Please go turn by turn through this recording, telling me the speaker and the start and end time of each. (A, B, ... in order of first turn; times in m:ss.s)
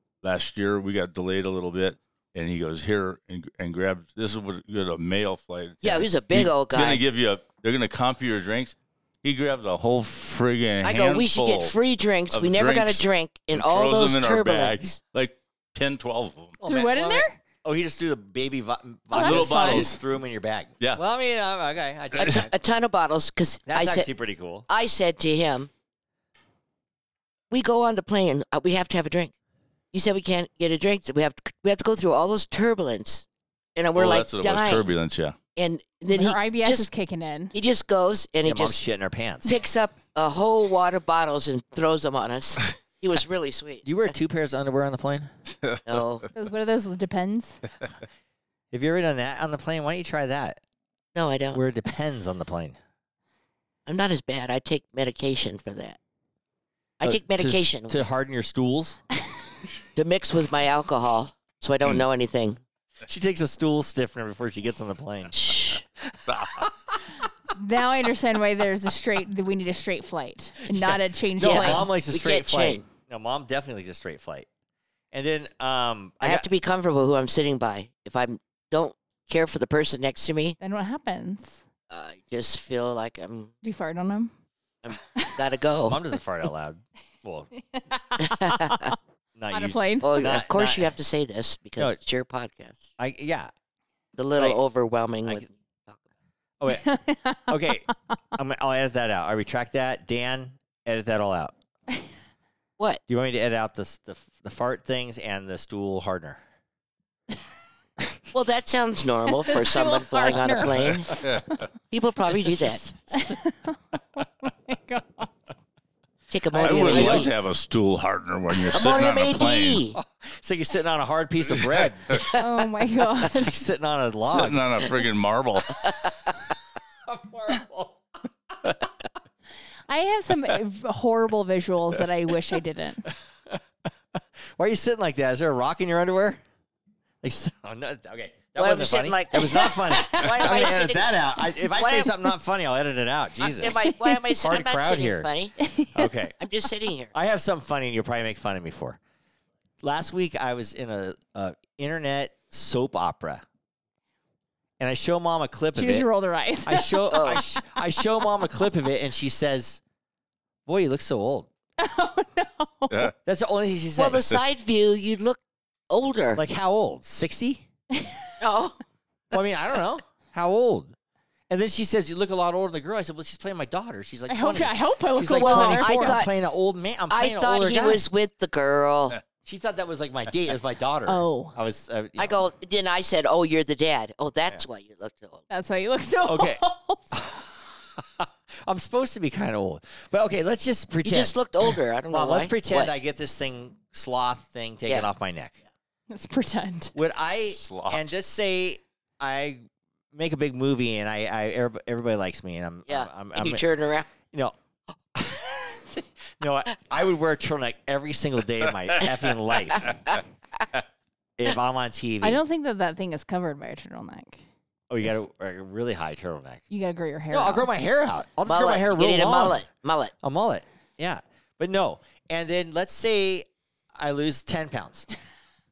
0:00.2-0:11.7 A
0:05.8-0:07.0 B
0:10.8-0:15.0 B
0:12.3-0:16.6 A
0:16.6-0:22.5 C
0:16.6-0:17.4 D
0:19.1-0:19.9 D
0:19.1-0:20.0 A
0:22.2-0:24.1 B
0:23.7-0:24.6 C
0:24.7-0:25.7 B
0:27.5-0:29.3 B
0:29.9-0:34.9 B
0:33.9-0:35.4 A
0:35.6-0:36.9 B
0:36.1-0:37.5 D
0:37.5-0:38.8 B
0:38.4-0:39.5 C
0:39.4-0:43.8 B
0:43.8-0:45.3 C
0:45.6-0:46.0 A
0:45.8-0:46.3 B
0:46.3-0:47.6 D
0:48.7-0:50.6 C
0:51.1-0:51.6 B
0:51.5-0:52.8 C
0:53.8-0:56.0 B
0:57.0-0:58.0 B
0:57.0-0:59.0 C
1:00.0-1:02.6 B
1:03.0-1:05.4 C
1:05.3-1:05.8 B
1:06.3-1:06.6 A
1:07.5-1:11.9 D
1:11.4-1:14.5 C
1:11.4-1:12.8 B
1:15.1-1:16.5 C
1:16.2-1:20.6 B
1:20.6-1:21.6 D
1:21.9-1:23.5 B
1:23.6-1:24.3 D
1:24.8-1:26.0 B
1:25.9-1:27.5 C
1:27.7-1:28.9 D
1:28.2-1:28.9 B
1:29.4-1:30.9 C
1:29.5-1:30.3 D
1:30.0-1:32.9 B
1:33.0-1:33.5 C
1:34.2-1:36.0 B
1:36.6-1:41.5 C
1:36.7-1:37.5 D
1:43.1-1:46.4 C
1:48.3-1:51.2 B
1:49.4-1:51.6 D
1:50.7-1:51.6 A
1:51.9-1:52.8 B
1:52.8-1:53.3 C
1:53.1-1:55.3 D
1:56.3-1:57.3 B
1:56.5-1:57.3 C
1:56.5-1:59.8 A
1:58.7-2:00.0 B
2:00.0-2:02.3 C
2:01.6-2:02.2 A
2:02.1-2:02.4 B
2:02.3-2:03.5 D
2:03.2-2:04.7 C
2:04.2-2:05.8 A
2:05.8-2:06.1 B
2:07.0-2:08.0 C
2:09.9-2:13.1 D
2:14.2-2:16.4 C
2:17.2-2:25.3 C
2:18.6-2:21.1 B
2:19.5-2:20.3 D
2:21.7-2:22.1 B
2:23.4-2:25.6 B
2:25.6-2:26.1 D
2:25.9-2:26.4 C
2:26.4-2:27.1 B
2:27.1-2:29.0 C
2:29.8-2:33.4 C
2:34.8-2:36.0 C
2:35.7-2:37.6 D
2:36.6-2:39.8 C
2:37.1-2:37.4 B
2:40.6-2:41.5 C
2:41.8-2:43.1 D
2:43.2-2:44.3 C
2:43.9-2:46.4 B
2:46.3-2:47.6 C
2:48.4-2:48.8 B
2:49.3-2:50.9 C
2:51.5-2:58.0 C
2:54.3-2:56.2 D
2:55.3-2:56.3 B
2:57.1-2:59.2 B
2:59.4-3:02.4 C
3:01.0-3:01.6 D
3:02.2-3:05.4 B
3:05.5-3:07.2 D
3:06.2-3:15.6 C
3:11.0-3:12.9 B
3:16.1-3:16.9 D
3:16.9-3:23.6 C
3:17.6-3:18.1 A
3:22.9-3:24.1 B
3:24.2-3:24.5 C
3:25.1-3:30.1 C
3:29.8-3:30.2 B
3:31.4-3:32.4 C
3:32.2-3:34.4 D
3:34.9-3:36.6 C
3:36.7-3:37.7 D
3:37.3-3:39.6 C
3:38.4-3:40.1 B
3:40.2-3:45.1 C